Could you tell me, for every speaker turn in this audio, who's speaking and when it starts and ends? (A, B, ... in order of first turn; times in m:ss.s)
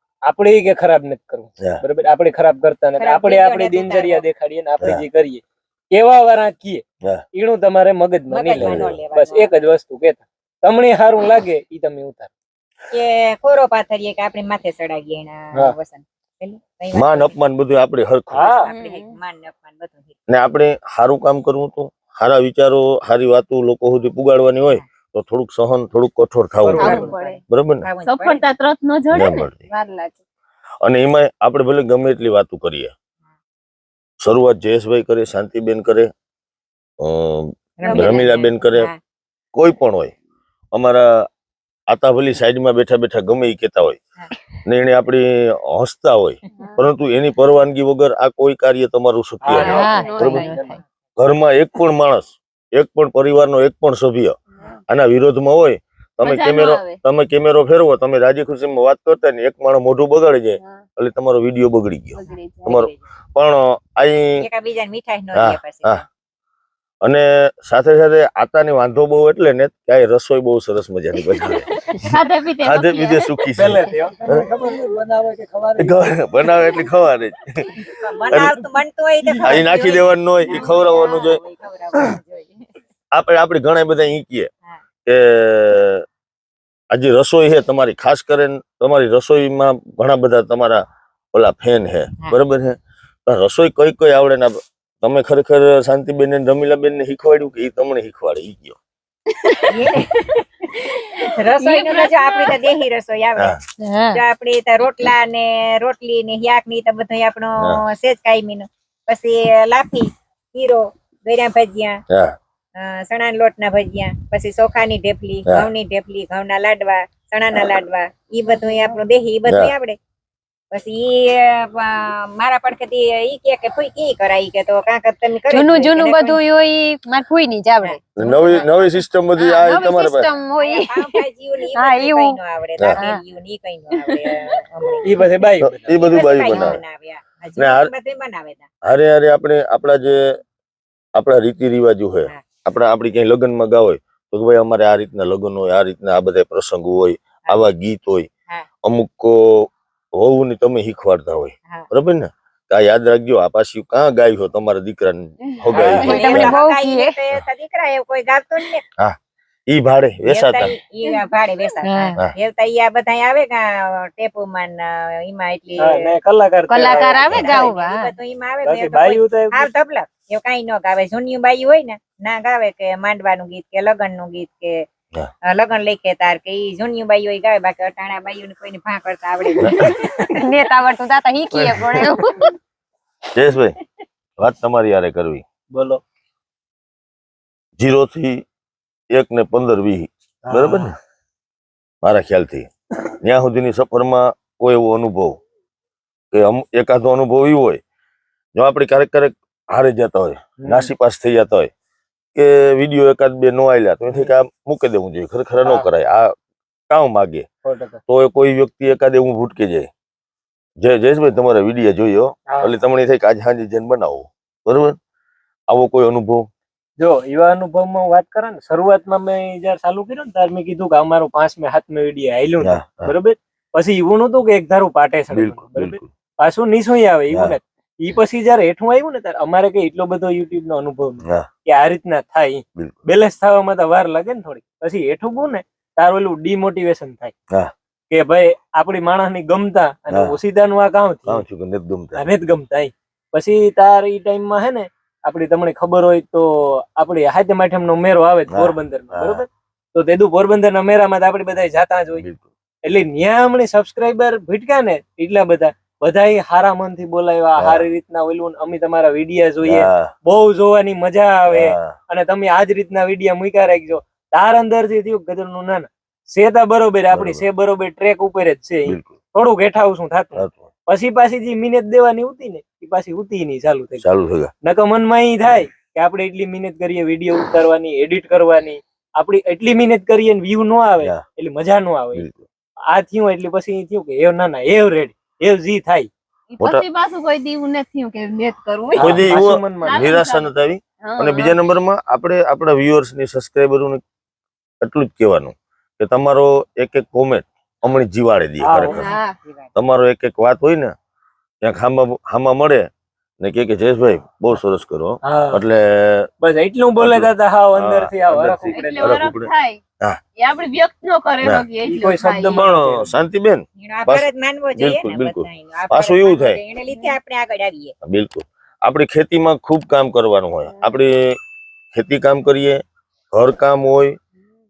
0:00.2-0:12.3 A
0:03.0-0:04.2 B
0:08.3-0:09.5 B
0:08.6-0:09.0 C
0:12.9-0:17.4 B
0:16.9-0:18.5 C
0:18.3-0:18.7 A
0:18.4-0:20.1 B
0:18.6-0:19.1 D
0:20.3-0:27.9 C
0:26.6-0:27.2 A
0:26.8-0:27.4 D
0:26.8-0:27.2 B
0:27.8-0:28.5 B
0:28.0-0:30.1 D
0:29.1-0:29.7 C
0:30.8-0:32.9 C
0:34.2-0:36.1 C
0:37.0-0:38.9 C
0:37.8-0:39.0 B
0:37.8-0:38.4 D
0:39.5-0:40.1 C
0:40.7-0:41.2 C
0:41.9-0:44.0 C
0:44.6-0:50.4 C
0:49.4-0:50.8 A
0:49.5-0:50.6 D
0:49.6-0:50.6 E
0:51.2-0:54.4 C
0:54.9-1:04.4 C
0:56.2-0:57.0 D
1:00.6-1:00.8 D
1:02.1-1:02.7 D
1:02.6-1:03.0 B
1:04.4-1:06.0 B
1:05.3-1:06.0 C
1:07.0-1:11.7 C
1:11.3-1:13.2 D
1:12.6-1:14.4 C
1:13.6-1:16.1 A
1:15.8-1:17.7 C
1:18.0-1:22.6 B
1:19.2-1:19.7 A
1:19.4-1:21.4 C
1:23.1-1:24.5 C
1:25.0-1:26.0 C
1:26.9-1:38.8 C
1:39.7-1:52.0 B
1:41.6-1:42.7 D
1:43.8-1:44.2 E
1:52.8-2:00.0 B
1:58.5-1:58.9 E
1:59.5-1:59.7 C
2:00.7-2:06.4 B
2:05.5-2:08.7 E
2:07.8-2:08.7 B
2:08.2-2:10.3 C
2:09.4-2:11.1 E
2:10.5-2:15.2 B
2:11.7-2:12.4 E
2:12.9-2:13.2 E
2:15.0-2:15.9 A
2:15.6-2:16.8 C
2:15.9-2:18.7 B
2:17.6-2:17.9 C
2:18.8-2:20.4 C
2:21.1-2:28.3 C
2:28.8-2:36.6 C
2:35.7-2:36.1 A
2:35.8-2:36.3 D
2:36.0-2:37.2 E
2:36.0-2:38.8 B
2:39.7-2:40.7 C
2:40.2-2:46.1 B
2:41.8-2:42.3 E
2:45.8-2:47.7 A
2:46.7-2:48.1 E
2:46.8-2:54.8 B
2:48.6-2:49.7 A
2:55.5-3:00.1 B
2:59.6-2:59.9 C
2:59.8-3:00.1 A
3:00.3-3:02.5 E
3:03.3-3:03.8 C
3:04.4-3:05.4 C
3:05.7-3:06.0 A
3:07.8-3:08.4 C
3:09.1-3:11.0 C
3:10.4-3:10.9 A
3:12.0-3:12.7 C
3:13.2-3:15.4 C
3:16.3-3:17.8 C
3:18.6-3:21.7 C
3:20.6-3:20.9 A
3:22.3-3:26.3 C
3:26.9-3:27.4 C
3:27.6-3:28.0 A
3:28.1-3:29.9 C
3:30.8-3:35.0 C
3:32.5-3:32.7 A
3:35.7-3:36.4 C
3:37.0-3:57.3 A
3:42.6-3:43.1 C
3:45.3-3:46.1 C
3:47.3-3:47.6 C
3:52.8-3:53.0 C
3:58.1-4:01.4 A
4:00.1-4:00.3 C
4:01.3-4:02.3 C
4:02.1-4:12.2 A
4:08.5-4:09.4 C
4:12.1-4:12.4 C
4:12.8-4:34.0 A
4:17.6-4:17.9 C
4:19.6-4:20.1 C
4:21.5-4:21.9 C
4:27.1-4:27.4 C
4:28.9-4:29.1 C
4:30.4-4:30.7 C
4:34.0-4:34.5 C
4:34.6-4:42.2 A
4:42.1-4:42.4 C
4:42.9-4:46.1 A
4:46.5-4:49.3 D
4:49.0-4:54.0 C
4:49.0-4:50.1 A
4:49.8-4:50.5 D
4:51.0-4:51.6 D
4:54.8-4:59.1 C
4:58.6-4:59.1 A
4:58.9-4:59.3 D
4:59.4-4:59.7 B
4:59.8-5:00.9 C
5:01.6-5:02.8 C
5:03.4-5:06.3 C
5:05.2-5:05.6 A
5:06.4-5:09.3 A
5:07.0-5:09.5 C
5:08.7-5:09.8 D
5:10.4-5:12.7 D
5:11.8-5:13.1 A
5:12.5-5:16.6 C
5:13.8-5:17.9 B
5:18.0-5:21.4 C
5:21.9-5:22.8 C
5:23.3-5:24.2 C